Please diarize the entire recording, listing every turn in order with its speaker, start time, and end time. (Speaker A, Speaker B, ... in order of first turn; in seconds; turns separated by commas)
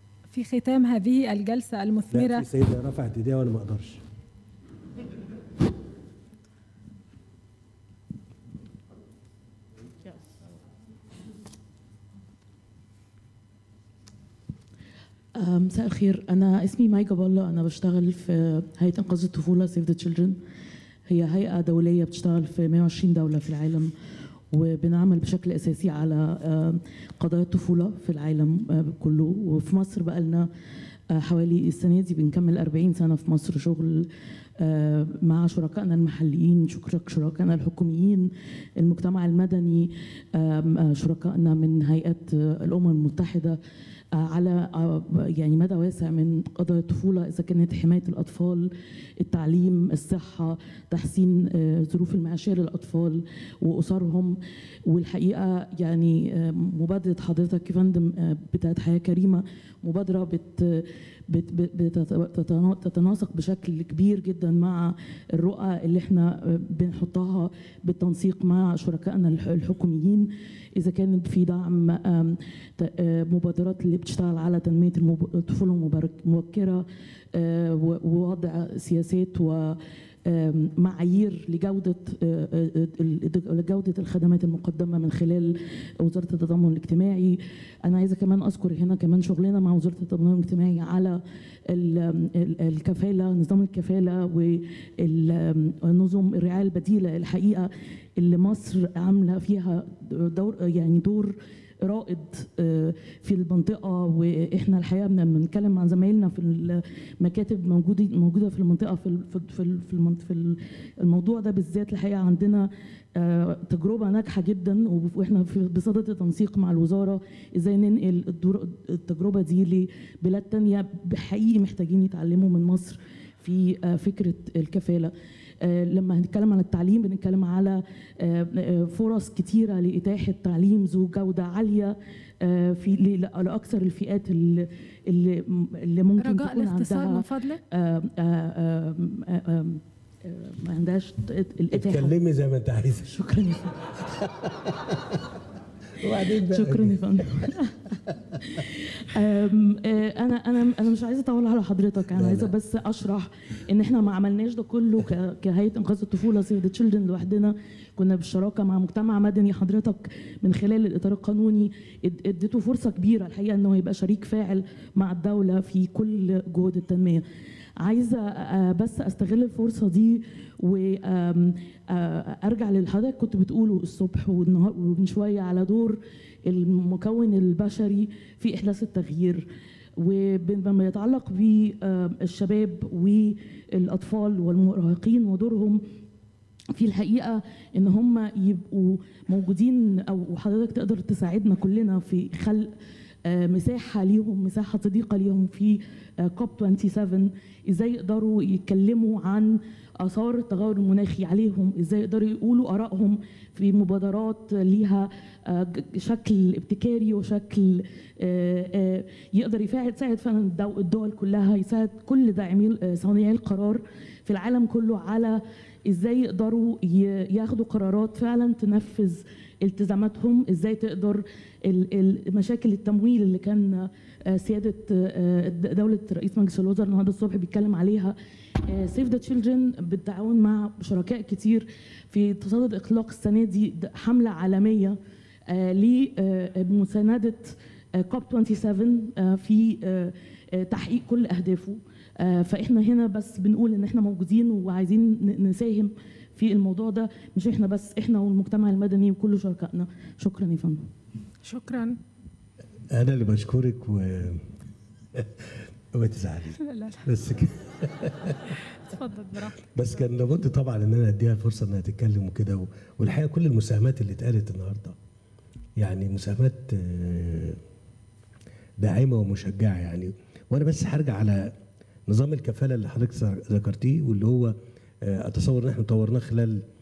Speaker A: 0.3-2.5, Speaker B: 2.1-4.0, Speaker C: 15.3-20.4, Speaker C: 21.1-23.9, Speaker C: 24.5-30.5, Speaker C: 31.1-43.6, Speaker C: 44.1-142.2, Speaker A: 136.2-137.6, Speaker B: 141.7-143.1, Speaker C: 143.0-143.9, Speaker B: 144.4-145.3, Speaker B: 146.0-147.0, Speaker C: 146.3-167.2, Speaker B: 152.1-152.5, Speaker C: 167.8-179.4, Speaker C: 180.0-185.8, Speaker C: 186.8-192.7, Speaker C: 193.2-235.0, Speaker C: 235.5-250.8, Speaker A: 251.4-252.0, Speaker B: 252.9-254.4, Speaker B: 255.2-258.6, Speaker A: 256.6-257.0, Speaker A: 258.9-259.5, Speaker B: 259.7-265.0, Speaker B: 265.8-267.6, Speaker B: 268.8-271.5, Speaker B: 272.1-276.6